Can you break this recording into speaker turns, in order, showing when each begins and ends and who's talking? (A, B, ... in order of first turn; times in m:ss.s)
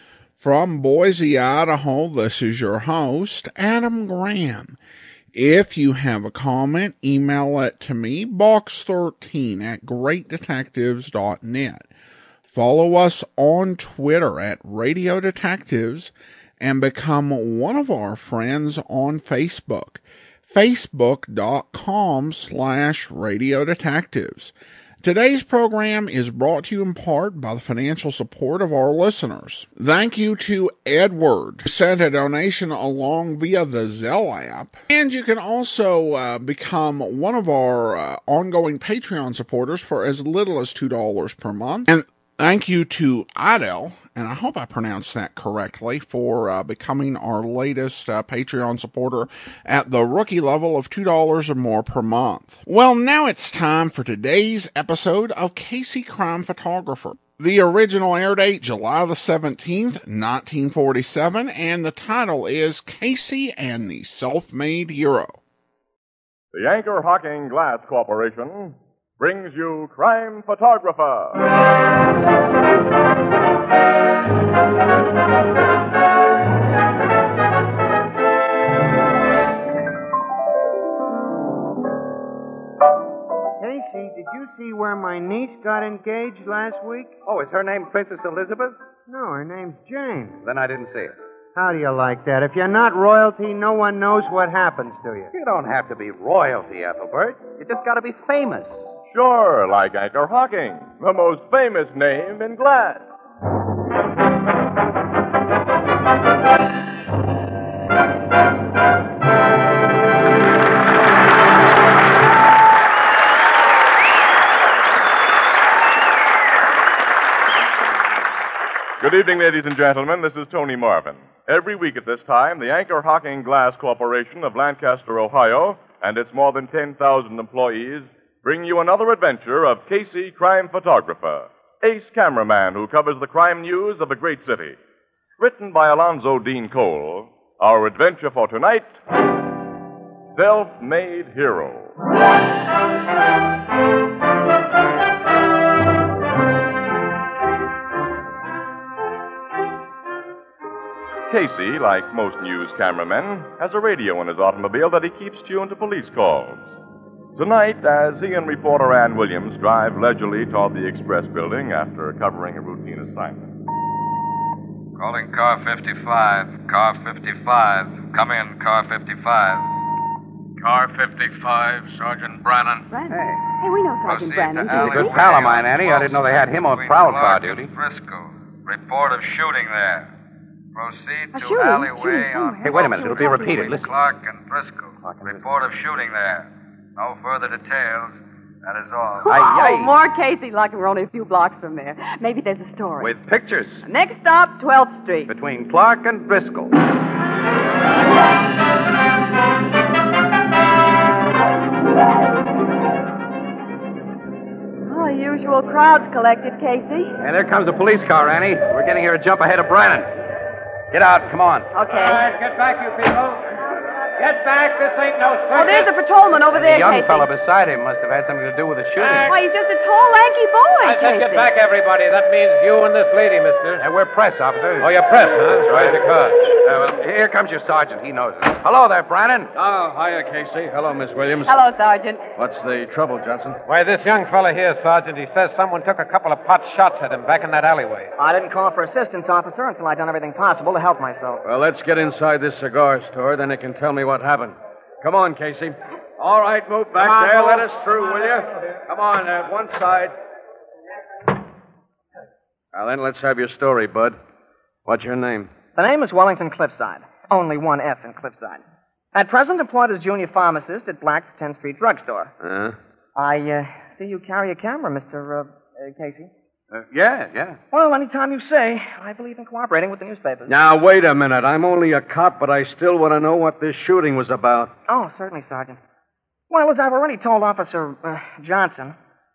0:00.4-0:04.8 A
0:05.3-0:11.9 A
0:12.5-1:05.4 A
1:06.5-1:11.4 B
1:23.6-1:27.1 C
1:27.2-1:28.8 D
1:29.1-1:30.4 C
1:30.4-1:31.2 D
1:31.5-1:35.3 C
1:35.3-1:38.8 D
1:39.1-1:43.0 B
1:59.0-2:14.8 B
2:15.4-2:18.9 B
2:20.3-2:21.9 B
2:31.3-2:36.7 B
2:37.4-2:43.5 B
2:45.0-2:49.7 E
2:50.6-2:52.9 E
2:52.9-2:55.2 F
2:53.1-2:53.4 D
2:54.0-3:00.1 E
2:54.7-2:57.7 D
3:00.7-3:09.3 E
3:01.3-3:03.8 F
3:02.6-3:04.0 D
3:05.0-3:05.4 D
3:09.2-3:13.1 F
3:09.2-3:09.9 D
3:13.0-3:13.8 D
3:13.8-3:15.3 F
3:15.3-3:16.7 D
3:24.9-3:27.1 F
3:27.2-3:30.1 D
3:30.9-3:31.7 D
3:31.7-3:32.3 F
3:31.9-3:33.4 G
3:34.2-3:35.9 G
3:35.5-3:37.3 F
3:36.5-3:39.3 D
3:39.0-3:39.3 G
3:39.2-3:41.5 F
3:40.8-3:43.8 G
3:43.8-3:44.9 D
3:44.8-3:46.5 G
3:45.6-3:49.5 D
3:49.5-3:51.6 H
3:51.4-3:52.2 F
3:52.4-3:53.6 H
3:53.6-3:58.1 G
3:58.2-4:01.4 I
4:01.4-4:10.1 H
4:12.7-4:14.2 H
4:14.8-4:15.5 H
4:15.8-4:18.6 I
4:19.1-4:22.3 I
4:22.4-4:22.8 H
4:23.1-4:26.3 I
4:26.7-4:27.6 D
4:27.7-4:30.5 I
4:30.5-4:34.7 H
4:34.9-4:35.8 I
4:36.5-4:39.0 I